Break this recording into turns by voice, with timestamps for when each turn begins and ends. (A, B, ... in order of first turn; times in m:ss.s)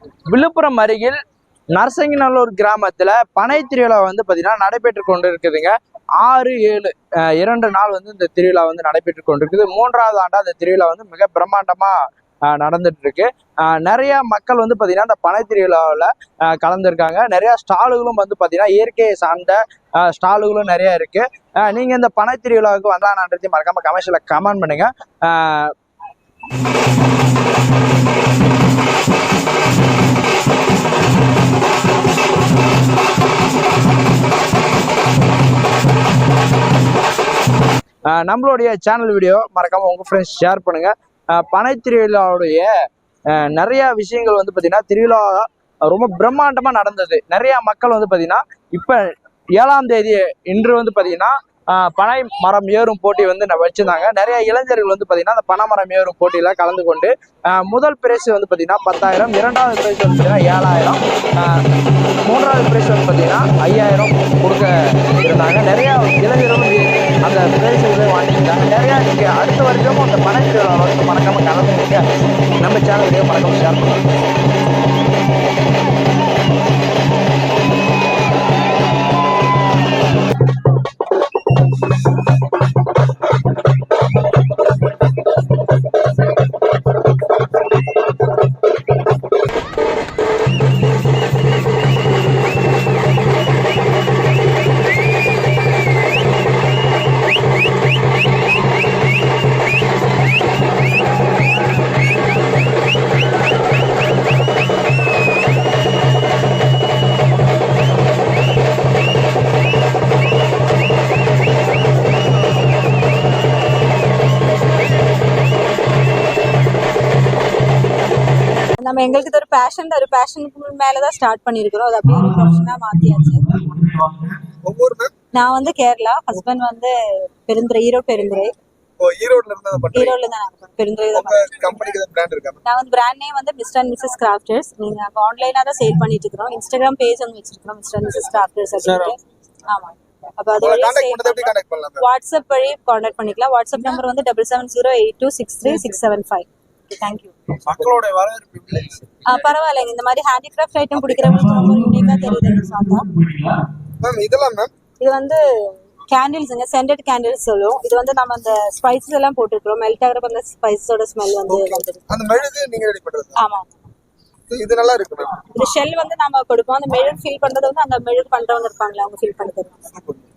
0:00.3-0:01.2 A
0:01.7-0:25.7 A
0:38.1-0:42.7 A
0:43.3-0:49.0 A
0:49.5-1:01.6 A
1:02.2-1:12.0 A
1:12.6-1:14.0 A
1:58.8-2:03.5 B
2:02.1-2:04.4 A
2:04.6-2:05.1 C
2:05.3-2:08.5 B
2:09.0-2:10.1 C
2:09.9-2:11.6 B
2:11.1-2:12.6 C
2:12.6-2:26.5 B
2:18.8-2:19.1 A
2:20.6-2:22.0 C
2:27.0-2:27.3 B
2:27.6-2:29.3 A
2:29.2-2:33.0 B
2:31.0-2:33.6 A
2:34.0-2:34.7 C
2:35.0-2:42.0 B
2:41.5-2:43.4 C
2:43.4-2:43.7 B
2:44.5-2:45.5 C
2:45.5-2:49.9 B